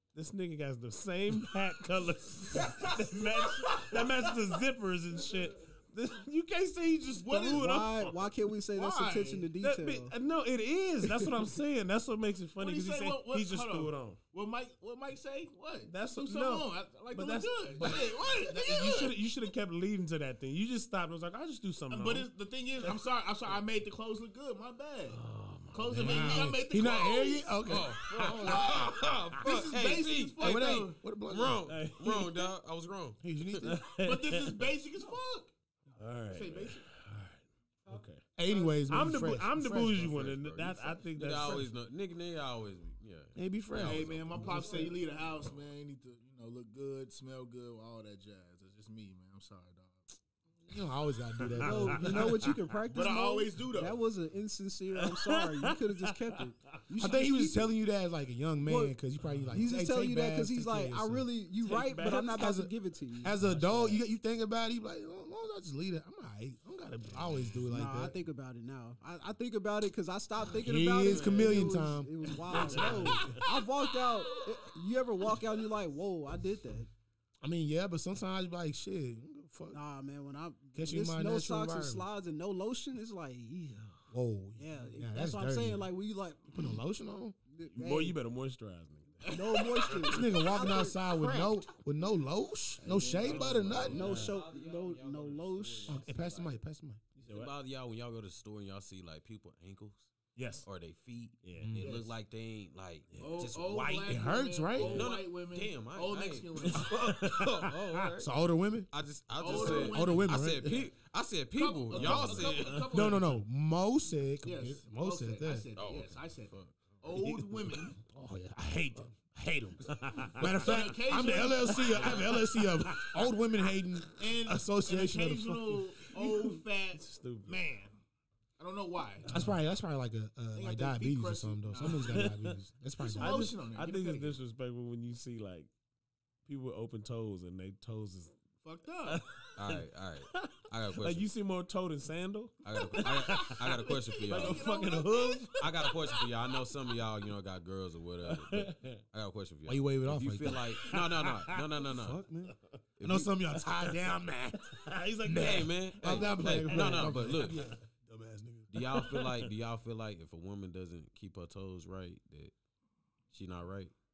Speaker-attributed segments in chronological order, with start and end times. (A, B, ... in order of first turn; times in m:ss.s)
0:00.2-0:08.3 A
0:02.8-0:04.0 B
0:07.2-0:07.7 B
0:07.5-0:10.1 C
0:08.7-0:09.5 B
0:09.6-0:14.2 A
0:12.6-0:19.2 B
0:15.9-0:22.3 A
0:21.9-0:25.2 B
0:25.1-0:26.6 A
0:25.7-0:31.0 B
0:25.9-0:28.8 D
0:27.6-0:33.7 E
0:28.3-0:29.4 A
0:30.4-0:31.6 D
0:31.7-0:32.5 A
0:33.2-0:33.8 D
0:33.6-0:34.7 A
0:34.0-0:35.5 B
0:36.0-0:38.2 A
0:36.3-0:36.9 B
0:38.4-0:40.1 D
0:38.9-0:41.7 A
0:39.9-0:44.8 E
0:43.4-0:44.6 D
0:43.8-0:50.1 B
0:44.5-0:44.9 C
0:50.7-0:52.5 D
0:51.4-0:52.5 A
0:51.6-0:57.7 C
0:52.9-0:54.0 B
0:55.3-0:55.5 A
0:56.0-0:56.3 A
0:57.0-1:01.3 D
0:58.6-0:59.0 C
0:59.2-0:59.7 A
0:59.5-1:03.4 C
1:01.6-1:02.4 A
1:02.2-1:08.2 D
1:03.4-1:04.0 A
1:07.7-1:16.9 C
1:10.5-1:13.3 D
1:11.0-1:11.7 A
1:12.5-1:13.5 A
1:12.8-1:13.7 B
1:17.4-1:19.8 D
1:19.7-1:24.0 C
1:20.8-1:22.1 D
1:24.1-1:25.9 D
1:24.6-1:26.7 C
1:26.5-1:27.4 D
1:27.5-1:28.2 C
1:27.7-1:30.2 A
1:29.2-1:30.0 B
1:29.3-1:31.6 C
1:30.0-1:34.0 D
1:32.8-1:34.2 B
1:33.1-1:36.6 E
1:33.9-1:34.4 A
1:33.9-1:36.0 C
1:35.9-1:37.0 D
1:37.2-1:37.5 A
1:37.2-1:40.1 E
1:40.4-1:40.7 A
1:40.6-1:44.0 E
1:41.4-1:41.8 A
1:41.6-1:41.9 D
1:41.8-1:42.2 B
1:43.1-1:44.1 A
1:43.2-1:46.9 B
1:44.1-1:45.1 D
1:44.8-1:48.3 E
1:46.6-1:48.1 A
1:48.2-1:48.9 D
1:48.9-1:52.9 E
1:49.4-1:50.5 B
1:49.4-1:50.8 D
1:51.6-1:53.4 B
1:51.9-1:53.2 A
1:52.9-1:55.7 D
1:54.4-1:58.0 B
1:55.8-1:57.0 E
1:57.1-1:58.0 A
1:58.0-1:59.8 D
1:59.7-2:00.9 A
2:00.4-2:05.9 D
2:00.6-2:02.4 B
2:01.5-2:03.4 A
2:04.2-2:08.0 B
2:06.1-2:07.6 A
2:08.6-2:09.5 B
2:09.2-2:09.6 A
2:09.3-2:13.5 D
2:10.5-2:12.3 B
2:11.8-2:12.6 A
2:13.0-2:14.4 B
2:13.2-2:15.7 A
2:16.5-2:18.4 A
2:18.6-2:19.2 B
2:19.0-2:26.2 A
2:19.6-2:21.3 E
2:22.6-2:24.7 E
2:22.8-2:26.2 B
2:25.6-2:32.2 E
2:28.3-2:29.0 A
2:29.7-2:30.7 D
2:30.5-2:31.8 A
2:31.9-2:38.7 D
2:33.0-2:33.3 E
2:33.6-2:34.1 A
2:34.6-2:37.8 A
2:35.4-2:37.6 E
2:38.7-2:42.5 E
2:38.8-2:39.5 A
2:43.3-2:43.9 E